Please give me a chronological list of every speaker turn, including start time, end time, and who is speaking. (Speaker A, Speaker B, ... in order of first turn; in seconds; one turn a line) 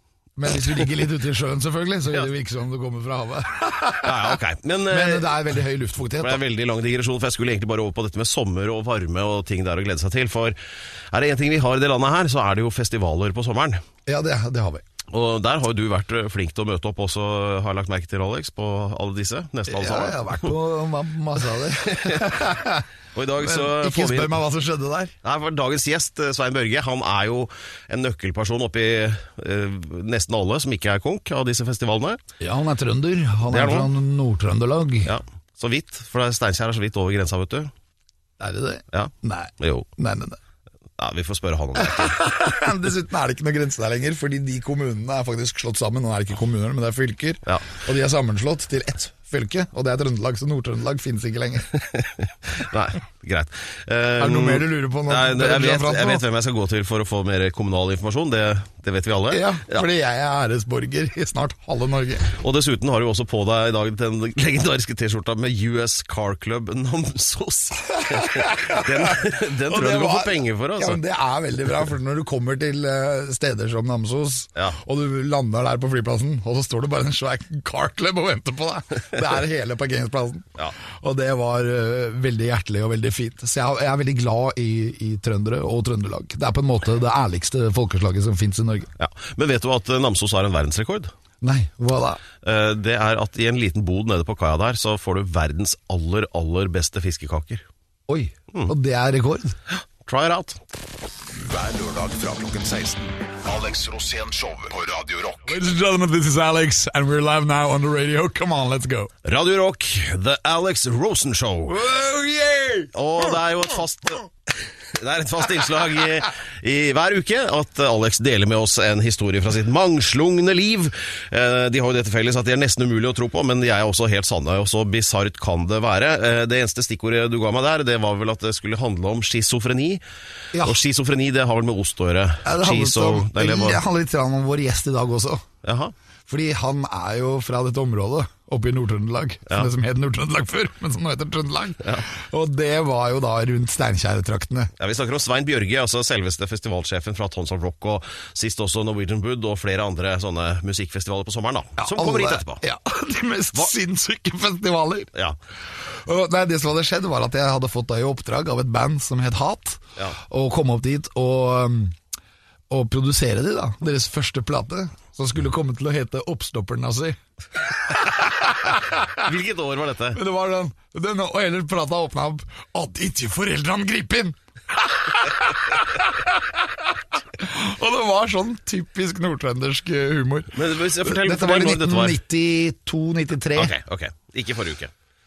Speaker A: 0.4-4.4
Speaker B: 4.0-5.3
Speaker A: 4.9-6.4
Speaker B: 6.2-10.6
Speaker B: 11.1-13.8
Speaker A: 14.1-14.8
Speaker B: 15.1-20.5
Speaker A: 19.7-22.9
Speaker B: 21.9-22.4
Speaker B: 23.1-24.4
Speaker A: 23.4-25.1
Speaker B: 25.2-32.2
Speaker A: 32.4-35.1
Speaker B: 33.5-33.9
Speaker B: 35.0-37.7
Speaker A: 38.4-40.4
Speaker B: 38.9-39.9
Speaker B: 41.0-42.2
Speaker A: 41.8-51.7
Speaker B: 51.9-59.9
Speaker A: 54.2-56.2
Speaker A: 59.3-62.3
Speaker B: 62.3-71.0
Speaker A: 68.0-88.9
Speaker B: 89.0-91.1
Speaker A: 91.4-92.2
Speaker B: 92.4-97.7
Speaker A: 98.1-99.6
Speaker B: 99.7-100.6
Speaker C: 101.4-105.5
Speaker A: 105.5-109.1
Speaker B: 109.2-111.8
Speaker A: 111.7-112.9
Speaker B: 112.9-130.0
Speaker B: 130.6-133.8
Speaker A: 132.4-135.4
Speaker B: 135.6-135.9
Speaker A: 136.3-144.7
Speaker B: 144.8-152.6
Speaker A: 151.8-155.1
Speaker A: 155.8-162.0
Speaker A: 162.7-167.2
Speaker A: 167.9-169.1
Speaker B: 169.2-170.2
Speaker A: 170.1-176.6
Speaker A: 177.4-183.7
Speaker B: 180.5-182.2
Speaker B: 183.6-184.9